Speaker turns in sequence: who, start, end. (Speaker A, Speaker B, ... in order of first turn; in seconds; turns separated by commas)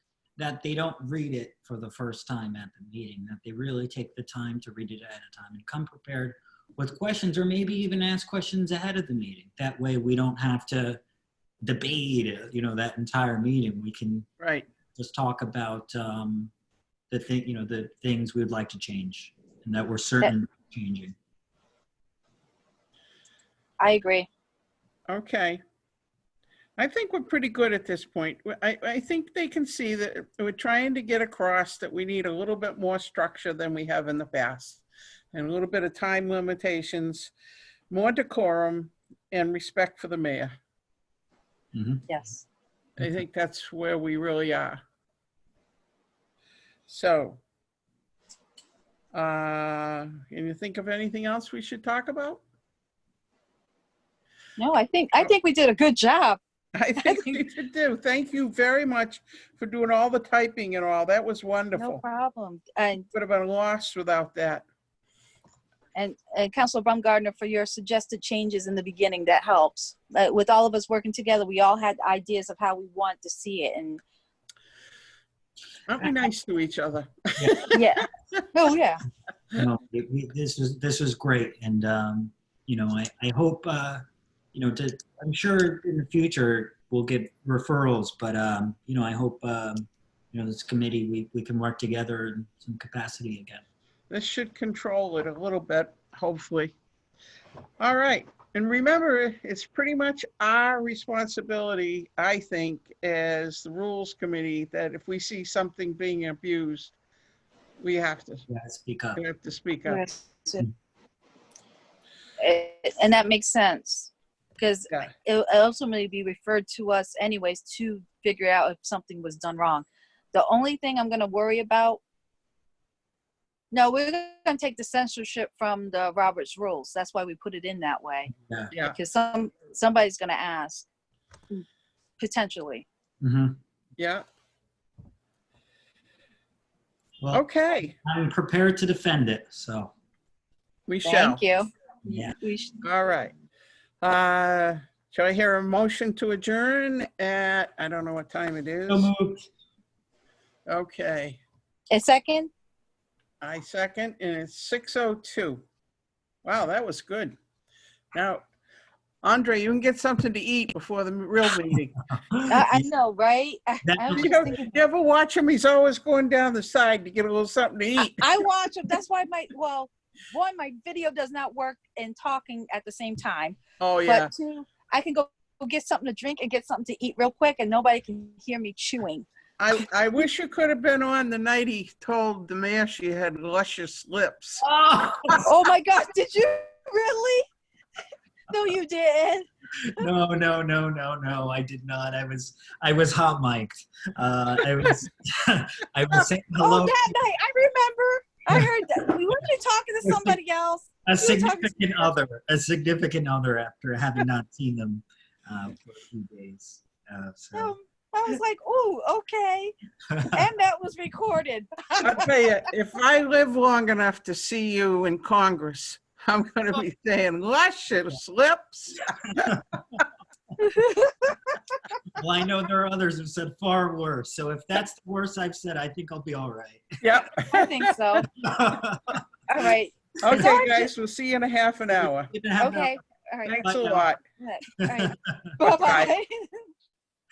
Speaker A: 0.4-11.0, Speaker A: 11.6-14.3, Speaker B: 14.4-14.7, Speaker A: 14.9-16.5, Speaker A: 17.1-21.2, Speaker C: 23.8-24.3, Speaker B: 25.1-25.6, Speaker B: 26.8-37.3, Speaker B: 37.9-40.5, Speaker A: 41.7-42.0, Speaker C: 42.1-42.4, Speaker B: 43.0-44.8, Speaker B: 46.9-47.4, Speaker B: 49.1-52.4, Speaker C: 54.6-56.4, Speaker B: 56.7-62.0, Speaker C: 57.0-57.4, Speaker C: 61.8-63.1, Speaker B: 63.1-64.7, Speaker C: 65.9-74.0, Speaker B: 75.9-78.0, Speaker A: 77.4-77.7, Speaker C: 77.7-79.0, Speaker A: 79.5-93.6, Speaker B: 94.1-96.7, Speaker B: 97.8-106.9, Speaker B: 107.8-108.4, Speaker A: 108.5-109.2, Speaker B: 109.1-110.1, Speaker C: 109.8-110.7, Speaker C: 112.4-122.0, Speaker C: 123.7-130.9, Speaker A: 128.3-128.7, Speaker C: 132.2-132.8, Speaker A: 133.2-133.6, Speaker B: 134.0-134.2, Speaker B: 137.3-138.0, Speaker A: 138.0-139.9, Speaker B: 140.9-141.4, Speaker C: 141.1-142.8, Speaker A: 142.1-142.3, Speaker B: 142.8-143.3, Speaker B: 144.0-149.1, Speaker A: 148.9-149.4, Speaker B: 150.7-151.4, Speaker C: 151.9-152.5, Speaker B: 153.4-155.6, Speaker B: 156.4-157.4, Speaker B: 158.1-158.4, Speaker B: 159.2-162.0, Speaker A: 162.1-162.9, Speaker C: 162.5-164.8, Speaker A: 163.8-164.5, Speaker B: 164.1-168.5, Speaker C: 168.0-179.3, Speaker B: 173.8-174.3, Speaker B: 179.6-184.6, Speaker A: 184.6-185.4, Speaker C: 185.4-187.5, Speaker C: 188.5-189.5, Speaker A: 189.9-197.1, Speaker C: 196.6-202.1, Speaker A: 200.1-200.4, Speaker A: 201.1-207.7, Speaker C: 207.5-209.7, Speaker A: 210.1-210.4, Speaker C: 210.3-212.3, Speaker B: 212.0-219.6, Speaker C: 220.6-221.5, Speaker A: 222.1-227.2, Speaker B: 227.0-227.9, Speaker C: 227.5-228.3, Speaker A: 228.4-229.2, Speaker C: 229.5-230.9, Speaker B: 230.2-232.3, Speaker A: 231.9-233.0, Speaker C: 232.6-233.7, Speaker B: 233.4-234.2, Speaker A: 233.6-234.1, Speaker C: 234.2-236.7, Speaker A: 234.8-235.3, Speaker B: 235.8-236.1